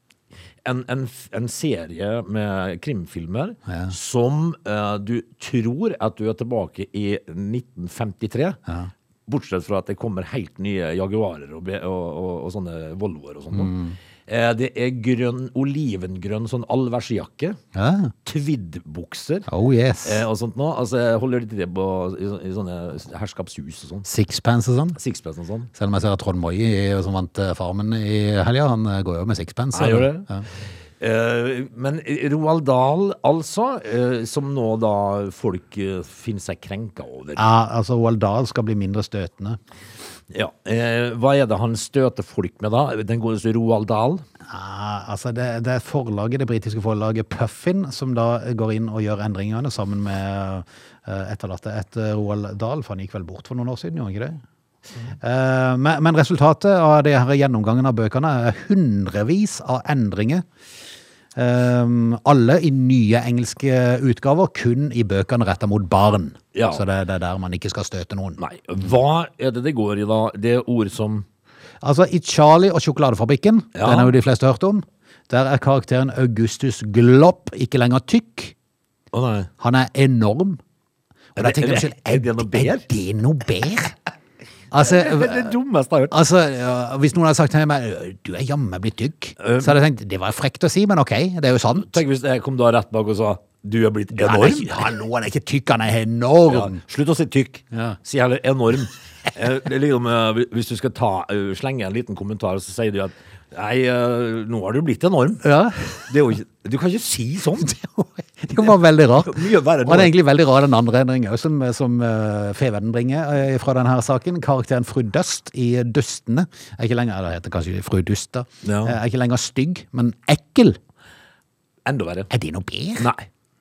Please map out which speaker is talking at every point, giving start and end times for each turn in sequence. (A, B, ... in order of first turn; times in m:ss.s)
0:00.6-0:08.6 A
0:03.7-0:03.9 B
0:09.3-0:13.7 A
0:13.5-0:14.0 B
0:14.3-0:17.6 A
0:17.7-0:18.1 B
0:18.2-0:19.5 A
0:19.5-0:20.2 B
0:20.0-0:24.0 A
0:24.0-0:25.0 B
0:25.0-0:25.7 A
0:25.7-0:30.4 B
0:29.7-0:30.3 A
0:31.0-0:37.5 A
0:37.4-0:39.6 B
0:40.3-0:44.2 A
0:44.4-0:54.4 B
0:55.2-1:00.4 B
1:01.4-1:08.4 B
1:06.5-1:06.8 A
1:08.4-1:11.2 A
1:11.8-1:18.5 B
1:13.7-1:14.1 A
1:19.1-1:19.5 A
1:19.6-1:20.6 B
1:21.4-1:22.8 A
1:21.4-1:24.0 B
1:24.7-1:25.5 B
1:24.7-1:26.2 A
1:26.1-1:32.0 B
1:29.4-1:29.8 A
1:31.8-1:34.9 A
1:34.1-1:36.8 B
1:36.5-1:45.4 A
1:37.7-1:38.0 B
1:45.4-1:46.1 B
1:46.0-1:47.7 A
1:47.6-2:00.8 B
1:49.2-1:50.1 A
1:58.6-1:59.0 A
2:01.8-2:02.3 A
2:02.3-2:03.1 B
2:03.0-2:03.3 A